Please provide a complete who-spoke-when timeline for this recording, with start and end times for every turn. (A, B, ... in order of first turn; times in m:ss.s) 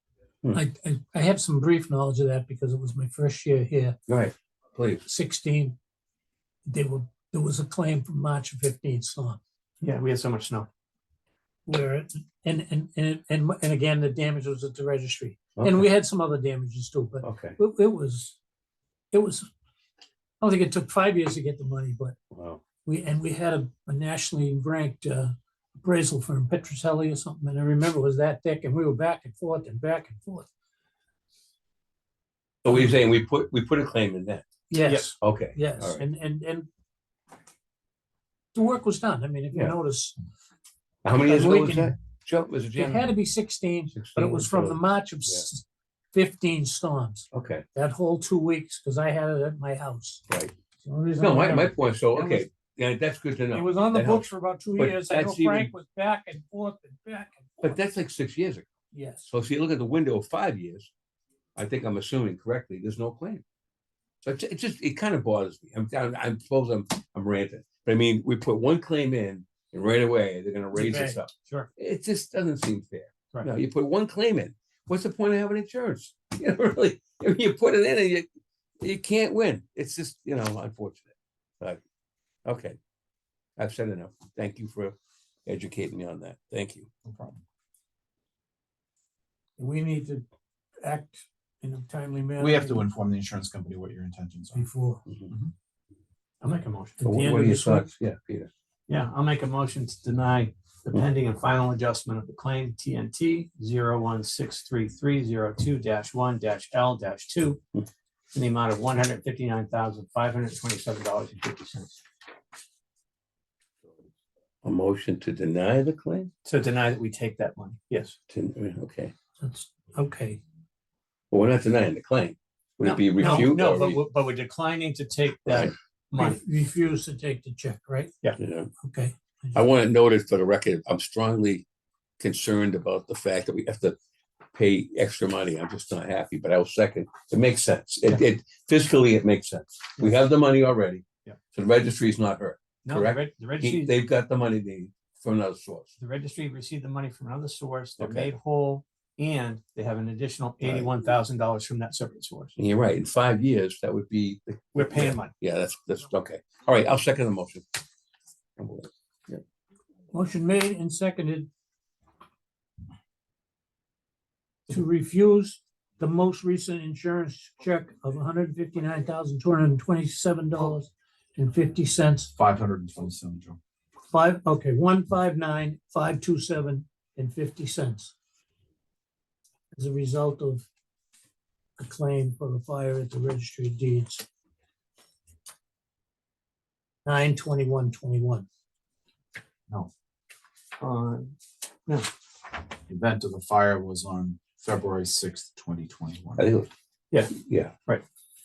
0:00.5-0:04.0 A
0:04.1-0:05.0 B
0:05.0-0:05.8 A
0:06.7-0:09.4 A
0:09.8-0:10.7 C
0:11.7-0:18.4 A
0:15.6-0:15.8 B
0:17.2-0:17.6 B
0:19.1-0:19.5 A
0:20.4-0:22.2 A
0:22.3-0:22.6 B
0:22.8-0:30.5 A
0:32.6-0:34.4 B
0:34.7-0:36.7 A
0:34.9-0:35.1 C
0:35.2-0:36.1 B
0:38.5-0:40.2 A
0:41.0-0:43.1 B
0:41.2-0:41.9 A
0:42.8-0:50.2 A
0:43.9-0:45.5 B
0:47.3-0:47.6 B
0:50.8-0:52.5 A
0:51.2-0:55.7 B
0:53.5-0:57.8 A
0:57.6-0:58.7 B
0:58.9-0:59.3 A
0:59.3-1:00.9 B
1:01.6-1:03.4 B
1:04.2-1:18.3 B
1:10.8-1:11.2 A
1:18.8-1:21.1 B
1:22.5-1:22.8 B
1:23.6-1:26.9 B
1:27.0-1:27.4 D
1:29.6-1:30.2 A
1:30.8-1:32.8 A
1:32.4-1:34.6 D
1:34.5-1:35.0 A
1:36.4-1:37.0 C
1:37.0-1:37.9 A
1:37.0-1:38.5 B
1:38.9-1:47.6 C
1:48.3-1:52.0 C
1:54.6-1:56.3 B
1:56.4-1:58.2 C
1:58.3-1:59.1 B
1:59.4-2:00.4 A
2:01.3-2:04.0 B
2:02.8-2:06.4 C
2:03.2-2:03.5 A
2:06.2-2:08.1 A
2:08.4-2:08.7 B
2:08.8-2:09.6 A
2:09.6-2:11.6 B
2:12.2-2:14.0 B
2:14.5-2:25.9 B
2:22.8-2:23.9 C
2:26.0-2:32.6 C
2:28.0-2:28.3 B
2:30.6-2:30.9 B
2:32.6-2:37.8 B
2:34.7-2:35.3 C
2:38.6-2:39.4 B
2:40.1-2:41.5 A
2:44.7-2:52.3 A
2:52.4-2:53.6 D
2:54.1-2:58.1 A
2:59.8-3:00.6 A
3:01.8-3:04.2 A
3:07.0-3:08.5 A
3:10.8-3:11.3 C
3:12.9-3:16.5 D
3:16.4-3:16.7 B
3:17.3-3:17.7 B